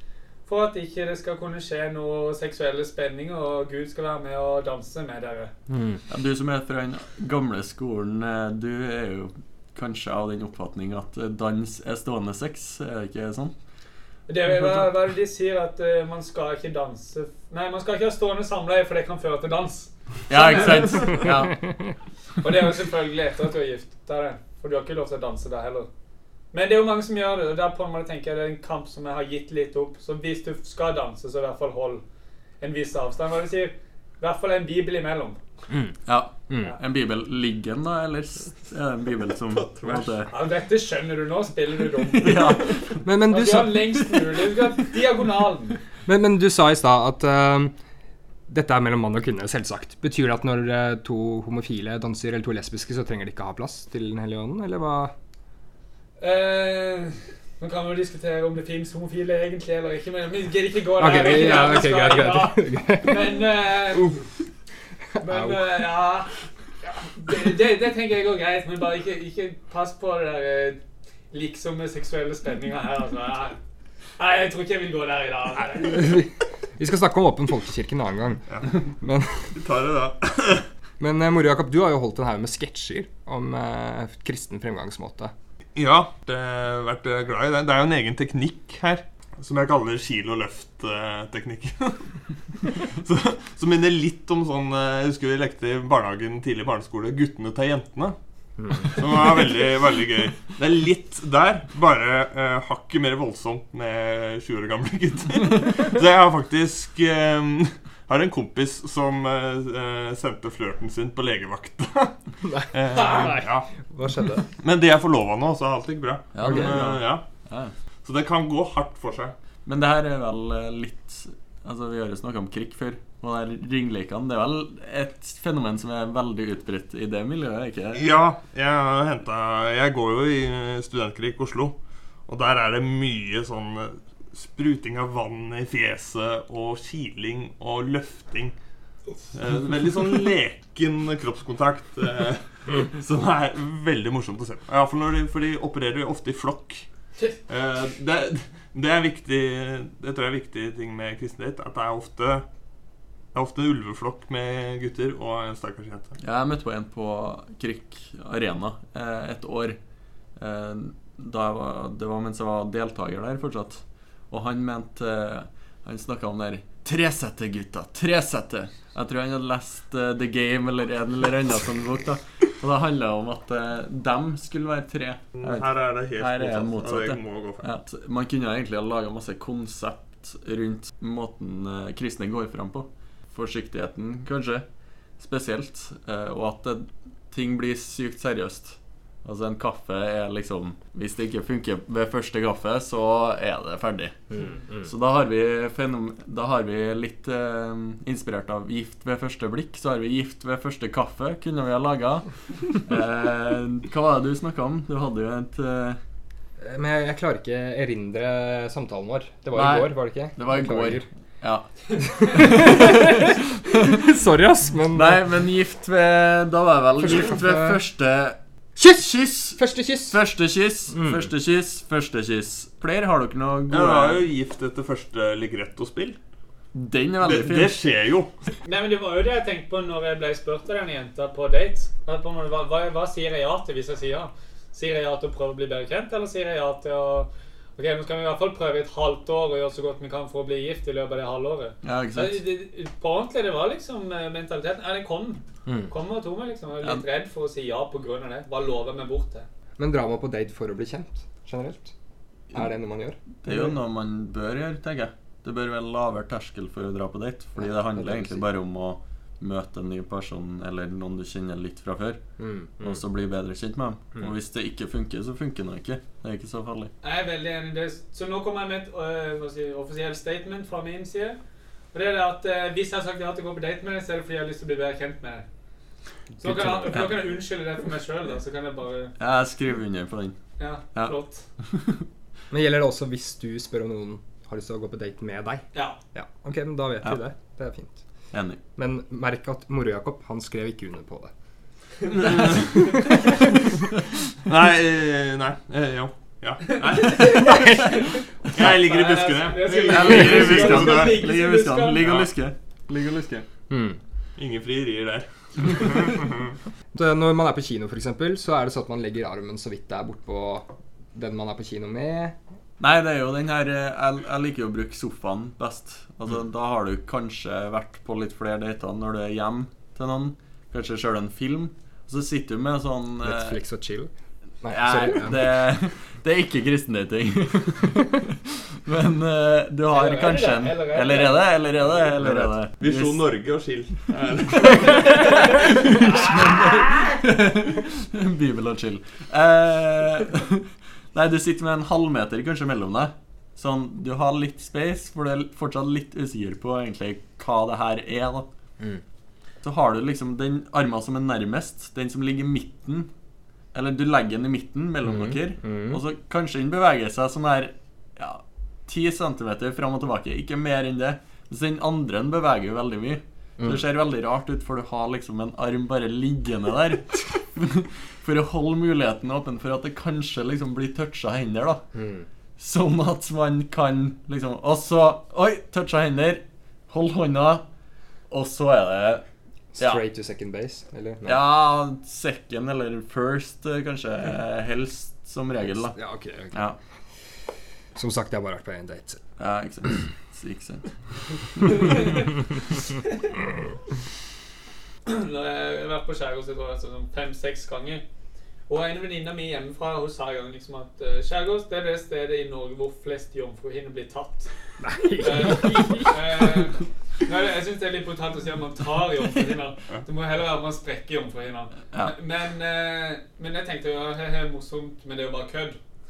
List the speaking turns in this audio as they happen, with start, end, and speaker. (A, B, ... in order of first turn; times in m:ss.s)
0:00.4-0:05.5 A
0:05.7-0:06.0 B
0:06.1-0:13.5 C
0:14.3-0:21.2 A
0:20.3-0:21.6 C
0:22.4-0:25.9 A
0:26.5-0:32.0 A
0:32.6-0:35.4 A
0:36.0-0:40.3 C
0:39.7-0:40.1 D
0:40.3-0:42.7 A
0:42.2-0:43.0 C
0:43.0-0:44.0 B
0:43.3-0:45.8 A
0:46.0-0:47.8 B
0:48.5-0:55.1 B
0:56.2-1:04.2 A
1:01.0-1:03.4 B
1:03.9-1:04.3 B
1:05.1-1:05.8 B
1:05.2-1:06.4 A
1:07.0-1:13.6 A
1:14.2-1:16.2 A
1:15.8-1:19.5 B
1:19.5-1:20.7 D
1:21.0-1:25.3 B
1:25.8-1:38.2 D
1:38.8-1:53.7 D
1:52.4-1:54.4 B
1:54.6-1:57.3 D
1:56.3-1:57.7 C
1:56.4-1:56.9 B
1:58.0-1:59.4 D
1:59.6-2:08.1 C
2:08.0-2:18.6 D
2:19.3-2:26.9 D
2:27.5-2:32.4 D
2:33.3-2:36.1 D
2:36.2-2:39.8 C
2:40.4-3:04.6 C
2:55.3-2:57.6 D
3:05.2-3:26.0 C
3:14.5-3:14.8 B
3:26.6-3:31.0 B
3:29.5-3:33.2 C
3:32.0-3:33.2 B
3:33.9-3:35.2 B
3:34.9-3:44.2 C
3:37.1-3:37.8 B
3:39.6-3:40.2 B
3:40.9-3:41.2 B
3:43.7-3:46.2 D
3:46.7-3:47.8 C
3:47.2-3:48.5 D
3:48.6-4:09.4 A
4:01.8-4:02.4 C
4:09.8-4:11.9 B
4:12.5-4:13.7 B
4:13.4-4:22.2 C
4:17.6-4:18.4 B
4:22.4-4:23.0 B
4:22.8-4:26.9 C
4:27.0-4:31.4 A
4:31.9-4:35.4 A
4:36.4-4:39.1 A
4:36.4-4:37.2 C
4:39.2-4:40.4 C
4:40.6-4:41.4 A
4:42.5-4:48.0 B
4:48.3-4:48.6 C
4:48.8-4:51.3 B
4:52.2-4:52.6 C
4:52.7-4:53.2 B
4:54.4-4:57.9 D
4:57.6-4:58.0 B
4:58.6-5:01.2 D
4:58.6-5:02.0 A
4:59.8-5:03.4 C
5:03.7-5:04.0 B
5:04.4-5:06.3 D
5:06.9-5:12.4 B
5:12.8-5:23.6 C
5:23.2-5:24.1 B
5:24.6-5:25.7 B
5:24.7-5:28.2 C
5:28.8-5:33.2 C
5:29.9-5:31.4 A
5:32.2-5:32.5 B
5:32.8-5:35.8 D
5:35.0-5:35.3 C
5:36.0-5:48.4 C
5:49.6-5:53.1 C
5:53.7-6:11.9 C
5:55.1-5:56.0 B
6:11.9-6:12.2 B
6:12.6-6:17.6 C
6:18.3-6:19.2 C
6:19.8-6:21.4 B
6:21.2-6:26.8 C
6:25.8-6:26.7 B
6:27.9-6:29.2 B
6:29.4-6:32.3 C
6:35.0-6:38.0 A
6:38.7-6:44.5 A
6:44.8-6:46.2 B
6:45.2-6:55.8 A